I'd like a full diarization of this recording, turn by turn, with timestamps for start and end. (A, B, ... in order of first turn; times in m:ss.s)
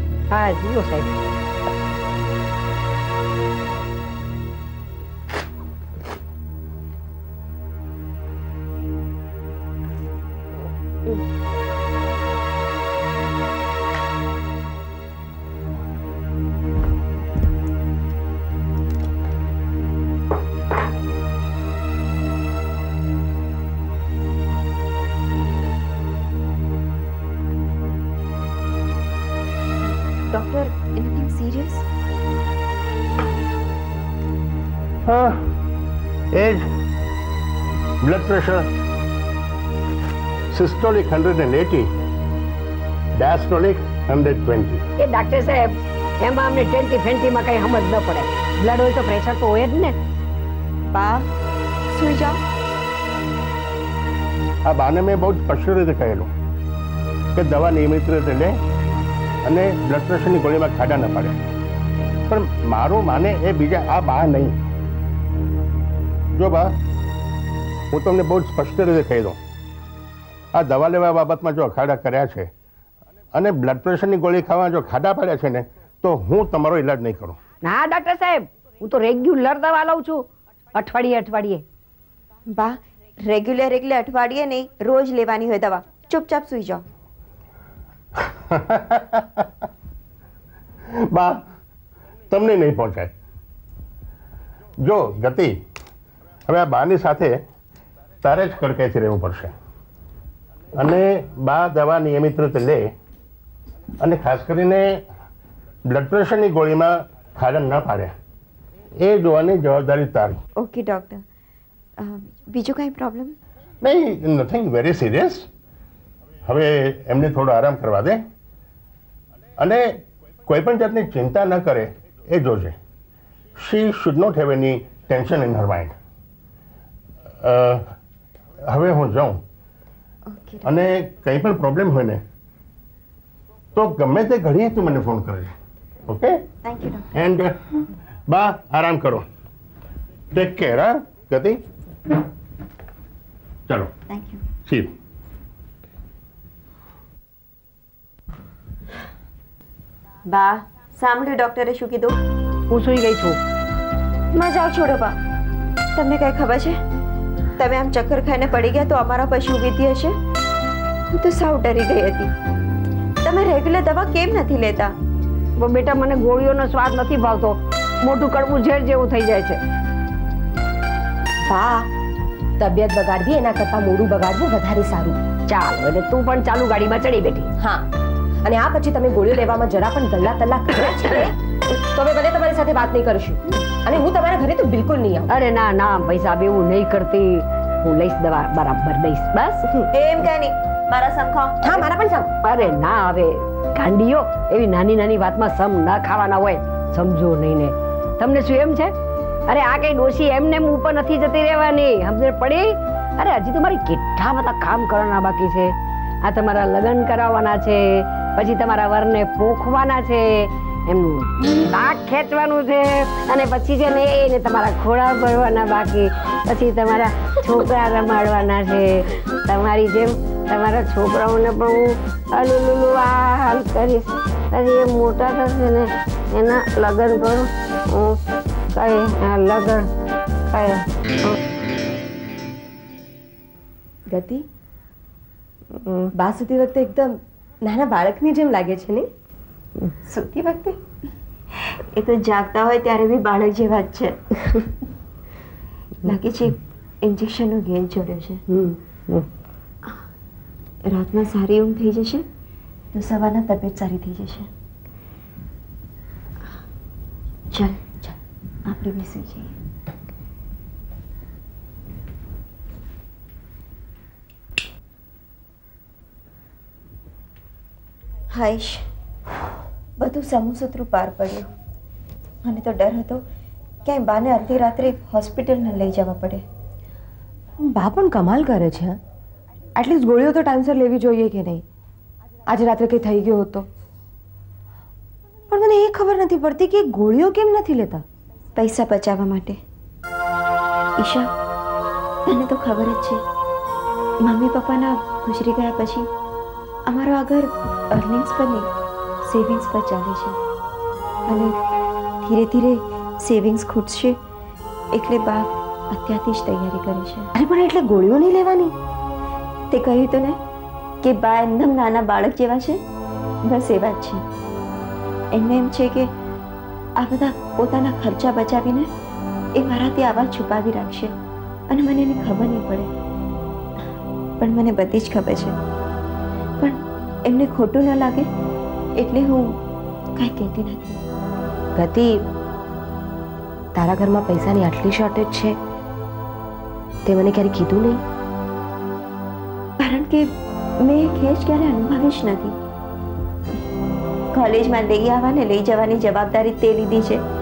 0:00.3-0:01.1 A
0:30.3-0:31.8 B
0:35.1-0:35.4 C
0:36.4-0:36.6 C
0:38.0-0:38.7 C
0:40.5-0:41.9 C
0:43.2-0:44.8 C
0:45.0-0:50.0 A
0:50.9-0:51.2 B
0:51.9-0:52.4 B
0:54.7-0:56.3 C
0:57.4-0:58.6 C
0:59.5-1:01.4 C
1:02.3-1:04.6 C
1:06.4-1:06.7 C
1:07.9-1:09.4 C
1:10.6-1:12.5 C
1:13.4-1:17.4 C
1:17.6-1:21.6 A
1:22.5-1:26.8 B
1:28.2-1:29.5 C
1:31.1-1:31.4 C
1:32.3-1:33.1 C
1:34.8-1:35.5 C
1:36.5-1:37.4 C
1:38.2-1:39.5 C
1:40.8-1:42.8 C
1:44.0-1:45.0 C
1:45.9-1:48.1 C
1:49.0-1:50.4 C
1:50.6-1:51.2 B
1:52.0-1:53.4 B
1:53.8-1:55.5 C
1:56.5-1:58.2 C
1:59.6-1:59.9 C
2:00.5-2:02.8 C
2:03.6-2:06.0 C
2:07.4-2:07.8 C
2:08.7-2:09.4 C
2:10.3-2:10.8 B
2:10.7-2:12.2 C
2:13.8-2:15.5 C
2:16.1-2:16.4 C
2:16.6-2:17.1 B
2:17.2-2:17.5 C
2:18.3-2:19.2 C
2:20.3-2:21.6 C
2:24.1-2:24.4 B
2:30.3-2:32.2 B
2:32.7-2:33.4 A
2:34.3-2:35.2 B
2:36.0-2:36.8 B
2:37.6-2:40.2 B
2:41.1-2:42.3 B
2:43.2-2:44.9 B
2:45.6-2:49.6 A
2:51.5-2:51.9 D
2:52.6-2:55.2 D
2:55.5-2:57.5 A
2:58.4-3:05.3 D
3:05.3-3:09.6 A
3:09.9-3:11.9 B
3:11.6-3:12.3 D
3:12.4-3:18.9 A
3:19.5-3:48.2 A
3:48.7-3:49.9 A
3:50.5-3:50.8 A
3:54.1-3:54.4 D
3:55.9-3:59.1 D
4:00.0-4:00.8 B
4:01.7-4:04.1 B
4:06.0-4:08.4 B
4:08.5-4:08.8 D
4:10.9-4:12.2 B
4:12.9-4:14.5 B
4:17.5-4:17.9 B
4:18.7-4:19.5 B
4:28.3-4:28.8 B
4:30.0-4:31.5 B
4:32.4-4:33.2 B
4:33.8-4:36.4 B
4:37.6-4:39.0 D
4:39.8-4:41.6 D
4:42.5-4:43.7 D
4:45.5-4:48.0 D
4:48.6-4:49.6 B
4:51.0-4:51.3 B
4:52.3-4:53.2 B
4:54.2-4:56.1 B
4:56.9-4:58.7 B
4:59.2-5:00.4 B
5:01.3-5:01.5 B
5:02.2-5:04.2 B
5:04.9-5:07.3 B
5:07.4-5:08.7 D
5:09.7-5:10.4 B
5:11.0-5:12.8 B
5:13.5-5:14.2 B
5:15.3-5:16.1 B
5:17.0-5:18.9 B
5:19.6-5:21.1 B
5:21.7-5:22.9 B
5:24.4-5:25.6 B
5:26.6-5:28.3 B
5:29.0-5:29.5 B
5:30.2-5:31.0 B
5:31.8-5:32.1 D
5:33.8-5:35.6 D
5:37.0-5:38.0 D
5:39.8-5:40.3 B
5:40.8-5:42.6 B
5:44.3-5:47.2 B